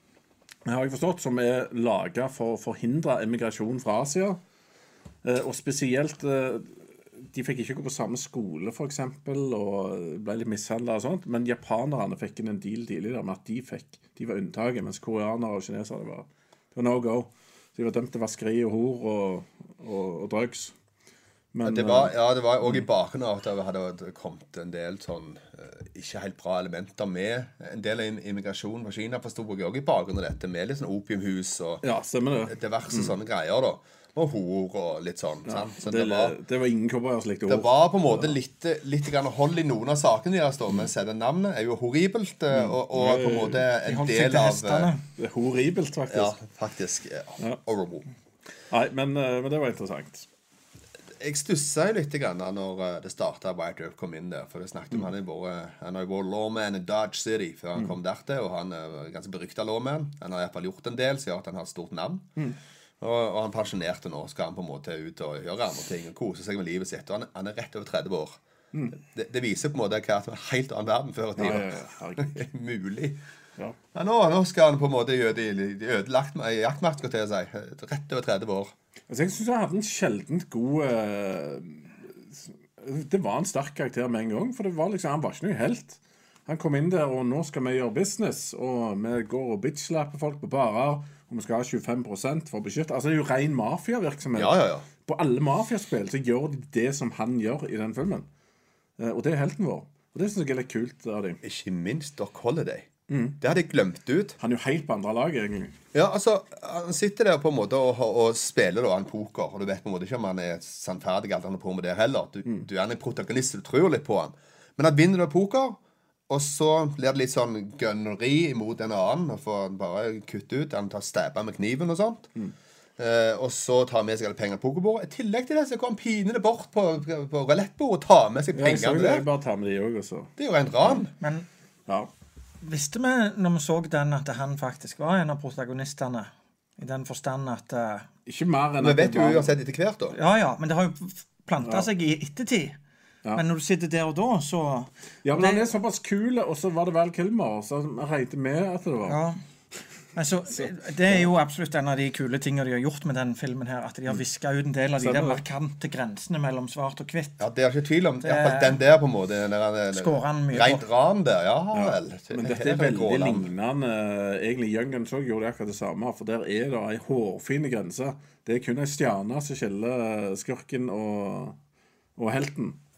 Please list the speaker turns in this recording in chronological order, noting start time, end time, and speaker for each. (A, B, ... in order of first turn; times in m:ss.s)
0:00.6-0:04.4 A
0:05.2-0:20.7 A
0:21.5-0:22.8 A
0:21.6-0:31.8 B
0:31.8-0:33.1 A
0:32.4-0:36.4 B
0:35.4-0:38.4 A
0:37.5-0:44.9 B
0:42.5-0:43.7 A
0:43.8-0:45.0 C
0:45.2-0:46.4 A
0:46.1-0:48.1 B
0:48.7-0:50.2 A
0:51.2-1:02.3 B
1:03.0-1:08.4 B
1:09.0-1:13.2 B
1:11.4-1:12.4 A
1:13.9-1:18.7 B
1:19.1-1:38.2 A
1:34.3-1:34.9 B
1:39.0-1:41.4 A
1:41.4-1:44.4 B
1:43.1-1:43.4 A
1:44.4-1:45.8 A
1:45.9-2:02.3 B
2:03.0-2:09.2 B
2:08.5-2:10.3 A
2:10.4-2:11.1 B
2:11.2-2:11.4 C
2:12.6-2:18.1 C
2:18.2-2:19.5 A
2:18.8-2:20.1 B
2:20.1-2:22.8 C
2:23.3-2:25.6 C
2:25.2-2:29.2 A
2:29.1-2:29.4 C
2:30.1-2:37.4 C
2:30.6-2:31.2 A
2:35.0-2:35.4 A
2:37.4-2:43.5 B
2:38.2-2:38.8 C
2:39.9-2:40.8 C
2:41.7-2:51.6 A
2:52.2-2:52.8 A